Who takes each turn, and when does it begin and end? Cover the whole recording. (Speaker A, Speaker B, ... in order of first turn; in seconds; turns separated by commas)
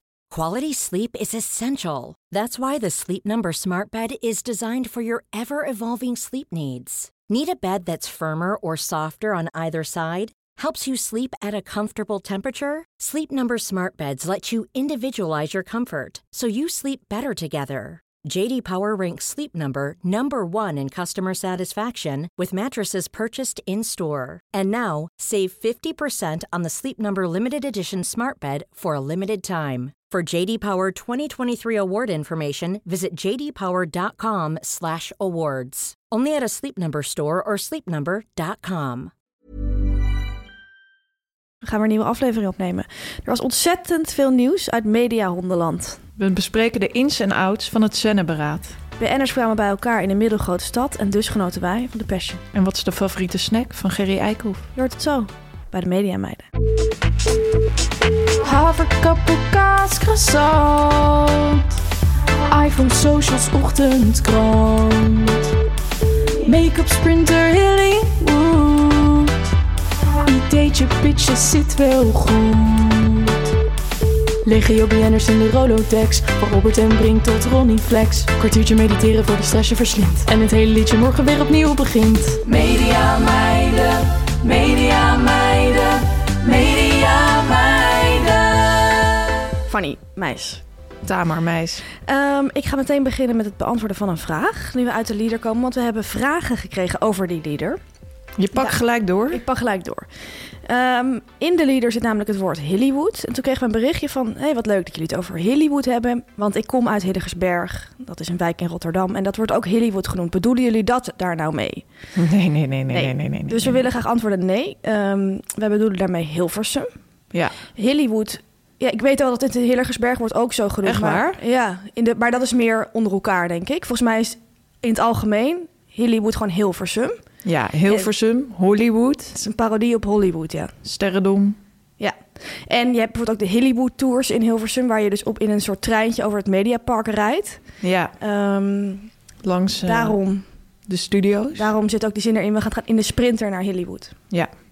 Speaker A: 0.3-39.1, Speaker B: 41.6-46.0, Speaker C: 46.2-48.8, Speaker B: 49.0-52.4, Speaker C: 52.5-54.7, Speaker B: 54.7-56.5, Speaker D: 58.5-58.7, Speaker B: 58.5-60.9, Speaker D: 60.7-61.2, Speaker D: 62.5-63.1, Speaker B: 62.6-65.2, Speaker D: 64.2-65.2, Speaker D: 66.5-69.2, Speaker B: 66.5-69.1, Speaker D: 70.2-73.1, Speaker B: 70.6-70.9, Speaker B: 71.7-72.4, Speaker D: 74.5-78.4, Speaker B: 75.7-76.1, Speaker B: 78.0-80.3, Speaker D: 79.0-79.7, Speaker D: 82.3-88.5, Speaker B: 82.5-82.8, Speaker B: 89.6-90.6, Speaker C: 91.0-91.8, Speaker B: 92.0-97.8, Speaker C: 98.4-99.4, Speaker B: 99.3-100.1, Speaker B: 100.6-111.8, Speaker C: 112.1-113.8, Speaker B: 112.9-116.9, Speaker B: 117.7-127.2, Speaker C: 120.8-121.4, Speaker C: 127.4-129.3, Speaker B: 129.3-130.7, Speaker C: 130.8-131.6, Speaker B: 132.0-137.6, Speaker C: 137.8-138.1, Speaker B: 138.2-139.1, Speaker C: 139.4-140.2, Speaker B: 139.8-140.4, Speaker C: 140.9-141.7, Speaker B: 141.5-144.1